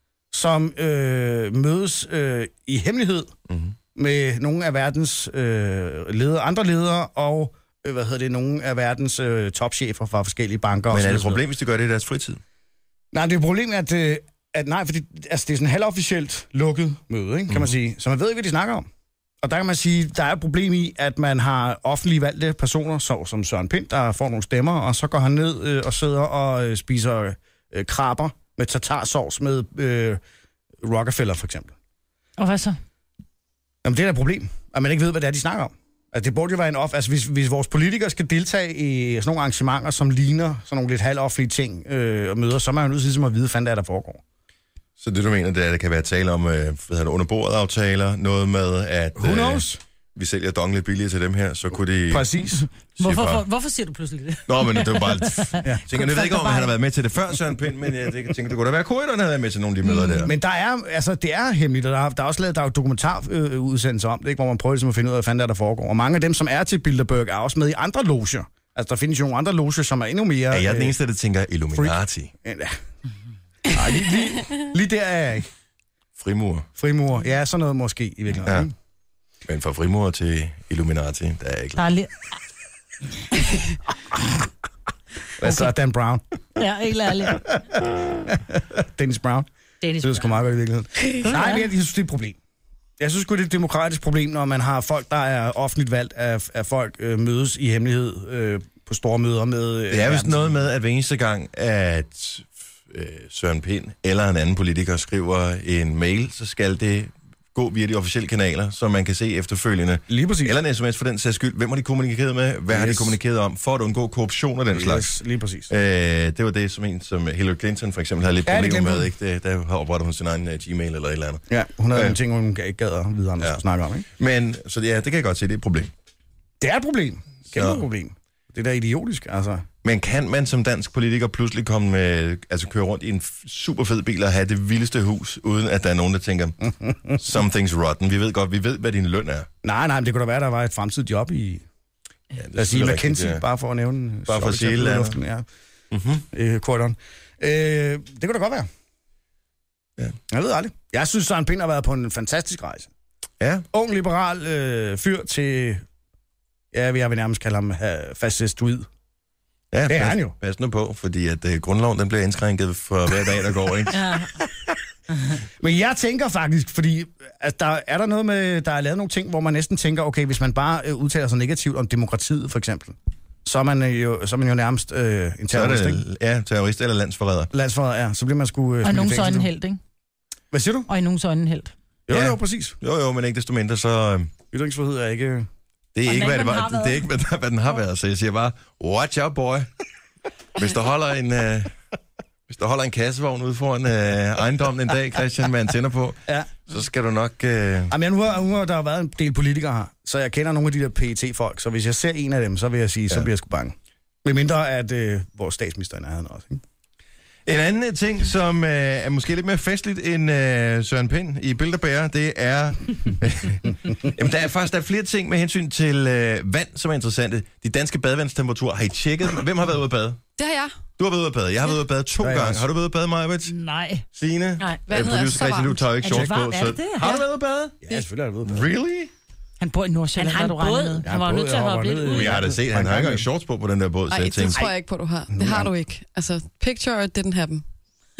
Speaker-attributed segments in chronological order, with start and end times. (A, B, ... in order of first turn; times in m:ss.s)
0:00.3-0:03.3 A
0:03.5-0:03.8 B
0:03.9-0:11.4 A
0:10.9-0:12.4 B
0:13.1-0:18.9 A
0:19.4-0:30.2 A
0:30.8-0:31.7 A
0:32.4-0:32.8 C
0:33.8-0:44.2 A
0:45.0-0:52.3 B
0:49.2-0:49.8 A
0:52.1-0:52.6 A
0:53.0-0:53.4 B
0:53.0-0:56.7 C
0:54.5-1:00.3 B
0:59.8-1:00.3 C
1:00.2-1:11.0 A
1:10.5-1:12.3 B
1:11.7-1:12.8 A
1:13.7-1:15.5 A
1:16.2-1:16.7 B
1:16.8-1:18.7 A
1:19.5-1:21.8 B
1:21.8-1:22.1 C
1:25.4-1:26.2 A
1:26.6-1:27.4 C
1:27.9-1:29.5 A
1:29.8-1:30.4 D
1:30.0-1:32.4 A
1:31.2-1:31.7 C
1:33.0-1:40.6 A
1:39.9-1:55.1 B
1:50.1-1:50.6 A
1:52.7-1:53.2 A
1:54.7-1:55.7 A
1:55.7-2:02.2 B
1:58.4-1:59.1 A
2:01.5-2:04.0 A
2:04.2-2:05.9 B
2:06.6-2:09.6 A
2:07.5-2:07.8 B
2:09.8-2:19.5 B
2:16.8-2:17.2 A
2:19.6-2:21.6 A
2:22.4-2:23.4 B
2:22.5-2:25.4 A
2:24.3-2:25.2 B
2:25.9-2:26.2 B
2:26.3-2:28.7 A
2:30.3-2:32.9 A
2:33.4-2:33.6 B
2:33.7-2:35.8 A
2:36.7-2:38.9 A
2:39.7-2:44.1 B
2:39.9-2:40.3 A
2:43.9-2:44.3 D
2:45.6-2:56.0 A
2:55.5-2:57.5 B
2:57.5-2:59.5 A
2:58.8-2:59.8 C
3:00.5-3:00.9 A
3:00.9-3:01.7 C
3:02.1-3:02.8 A
3:02.1-3:04.3 B
3:04.5-3:05.5 A
3:05.9-3:09.7 B
3:06.1-3:07.0 C
3:10.6-3:11.7 B
3:12.5-3:17.9 B
3:16.3-3:16.5 A
3:17.9-3:26.6 A
3:27.4-3:40.2 B
3:40.4-3:40.7 E
3:41.0-3:43.5 B
3:42.2-3:42.6 A
3:43.5-3:44.0 C
3:44.1-3:47.8 B
3:44.6-3:44.8 D
3:44.9-3:45.9 E
3:46.0-3:47.2 C
3:47.8-3:48.7 A
3:48.4-3:49.1 B
3:49.6-3:51.0 C
3:50.2-3:52.4 D
3:51.0-3:53.3 A
3:52.1-3:54.7 B
3:54.1-3:57.6 E
3:55.3-3:55.7 A